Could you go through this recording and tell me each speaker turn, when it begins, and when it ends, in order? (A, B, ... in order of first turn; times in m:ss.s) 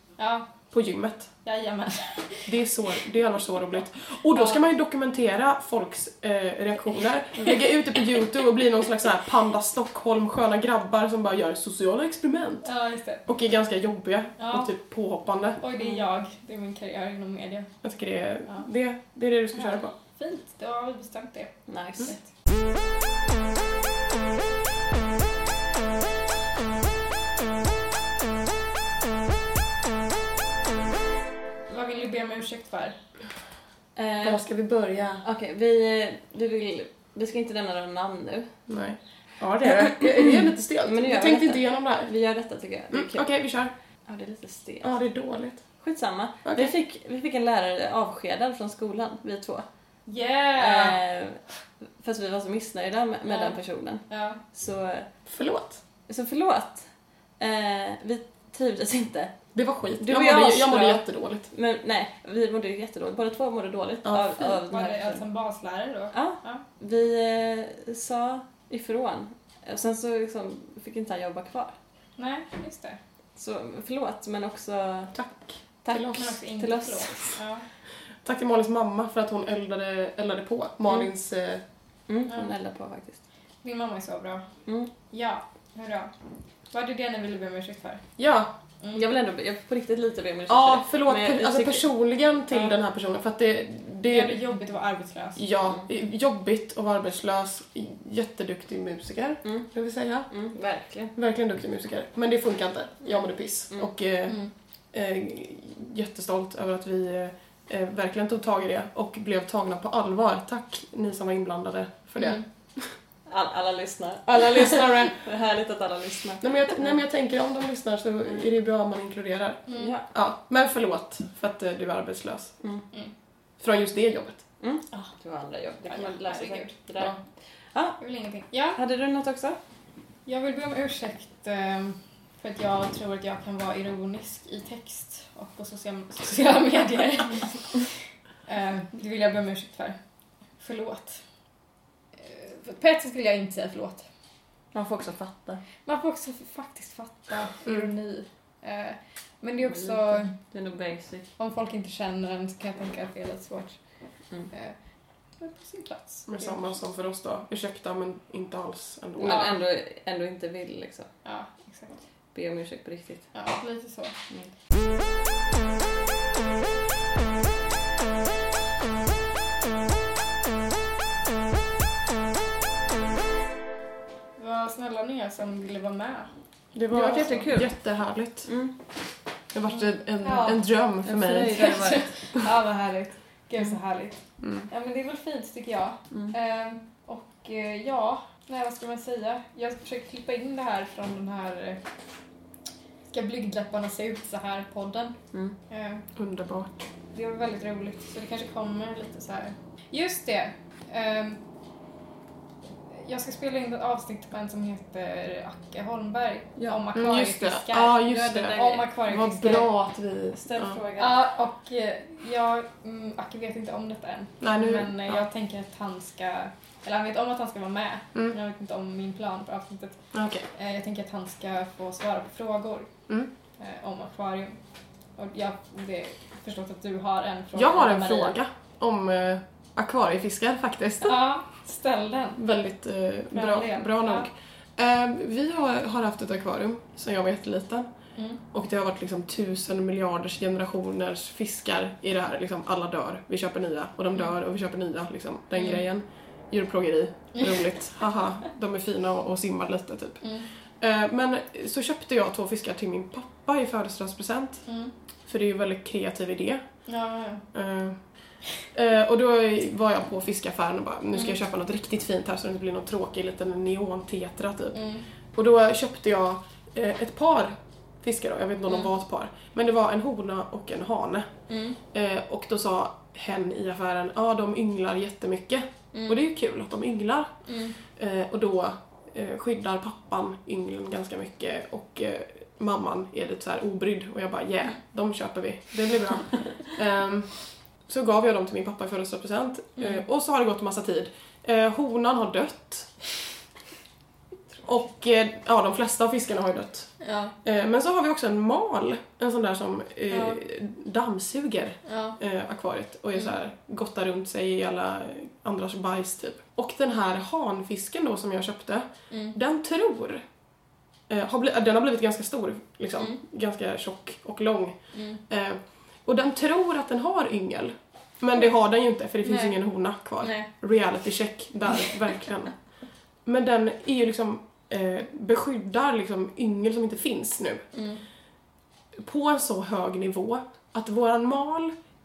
0:00.2-0:00.5 A
0:00.7-0:01.3 B
0:01.4-0:02.5 A
0:02.5-0:12.7 B
0:04.3-0:04.6 A
0:07.4-0:07.7 A
0:12.6-0:13.3 A
0:13.3-0:15.6 B
0:14.4-0:14.7 A
0:15.6-0:17.7 A
0:15.8-0:16.0 C
0:17.8-0:19.9 B
0:19.5-0:22.2 A
0:21.7-0:22.2 C
0:31.7-0:33.0 A
0:34.0-0:34.4 C
0:34.2-0:35.2 B
0:35.2-0:38.5 C
0:38.7-0:42.1 B
0:39.6-0:43.3 C
0:42.9-0:43.7 B
0:44.0-0:45.0 C
0:44.8-0:45.6 B
0:45.8-0:49.7 C
0:46.5-0:46.8 B
0:50.1-0:51.0 A
0:50.6-0:51.4 C
0:52.0-0:55.1 C
0:53.3-0:53.6 A
0:54.1-0:54.4 A
0:55.3-0:55.8 B
0:56.1-0:56.9 C
0:57.4-0:59.3 C
0:59.5-1:01.5 B
1:00.0-1:05.2 C
1:04.0-1:04.6 B
1:04.7-1:06.6 A
1:06.1-1:11.8 C
1:12.2-1:13.0 A
1:13.4-1:15.2 C
1:15.2-1:16.3 B
1:15.8-1:17.3 C
1:16.1-1:17.6 A
1:18.2-1:21.6 B
1:22.1-1:23.2 C
1:22.3-1:22.5 A
1:23.6-1:24.5 A
1:24.7-1:24.9 C
1:25.1-1:26.1 A
1:26.7-1:28.0 A
1:28.2-1:28.5 B
1:28.9-1:31.9 C
1:30.5-1:34.4 B
1:34.1-1:35.4 A
1:35.4-1:40.3 B
1:40.3-1:41.1 C
1:41.2-1:44.4 B
1:44.9-1:52.9 B
1:52.2-1:52.4 A
1:53.3-1:57.0 C
1:54.3-1:55.2 B
1:56.4-2:02.5 B
1:59.7-1:59.9 A
1:59.7-2:00.1 C
2:03.6-2:04.4 B
2:04.6-2:07.2 C
2:05.8-2:06.8 A
2:07.7-2:08.0 C
2:08.0-2:08.8 A
2:08.8-2:09.6 C
2:10.3-2:17.9 A
2:18.5-2:20.0 A
2:20.6-2:21.2 A
2:22.2-2:24.1 A
2:24.7-2:25.6 C
2:25.9-2:30.4 A
2:29.7-2:31.3 C
2:31.4-2:33.8 A
2:35.4-2:36.6 A
2:36.3-2:39.5 B
2:39.2-2:41.1 C
2:39.2-2:39.6 A
2:41.2-2:42.0 A
2:42.3-2:43.3 C
2:43.3-2:44.2 A
2:54.4-2:56.3 A
2:56.7-2:58.5 B
2:56.9-2:57.7 C
2:58.5-2:58.7 C
2:59.5-3:01.8 B
3:00.2-3:00.6 A
3:01.0-3:02.1 C
3:01.5-3:11.8 A
3:04.4-3:04.7 B
3:13.1-3:15.2 A
3:15.7-3:16.0 A
3:16.2-3:16.8 B
3:17.1-3:21.4 A
3:23.0-3:29.7 A
3:26.6-3:26.8 C
3:27.0-3:30.8 B
3:28.0-3:28.9 C
3:30.4-3:31.2 C
3:31.0-3:40.0 A
3:34.4-3:35.2 B
3:40.1-3:40.5 B
3:40.6-3:42.9 A
3:43.6-3:44.6 A
3:45.2-3:48.4 A
3:47.5-3:51.2 B
3:51.0-3:52.4 A
3:52.4-3:57.9 B
3:53.3-3:54.3 A
3:58.2-3:58.4 A
3:58.5-4:10.2 B
4:07.4-4:07.6 A
4:10.2-4:10.5 A
4:10.8-4:14.6 B
4:14.7-4:14.9 A
4:15.3-4:16.6 B
4:16.9-4:17.4 A
4:17.5-4:18.0 B
4:18.7-4:24.8 B
4:24.7-4:25.1 A
4:25.3-4:31.3 B
4:31.5-4:31.8 A
4:31.9-4:37.3 B
4:37.5-4:37.8 A
4:38.0-4:47.3 B
4:47.9-4:52.9 B
4:54.6-5:10.2 B
4:57.0-4:57.4 A
5:00.1-5:00.4 A
5:01.9-5:02.2 A
5:09.1-5:09.4 A
5:11.1-5:14.8 B
5:14.9-5:15.2 A
5:15.3-5:22.5 B
5:19.2-5:19.6 A
5:20.2-5:20.5 A
5:23.2-5:27.6 B
5:27.7-5:28.0 A
5:29.0-5:31.8 B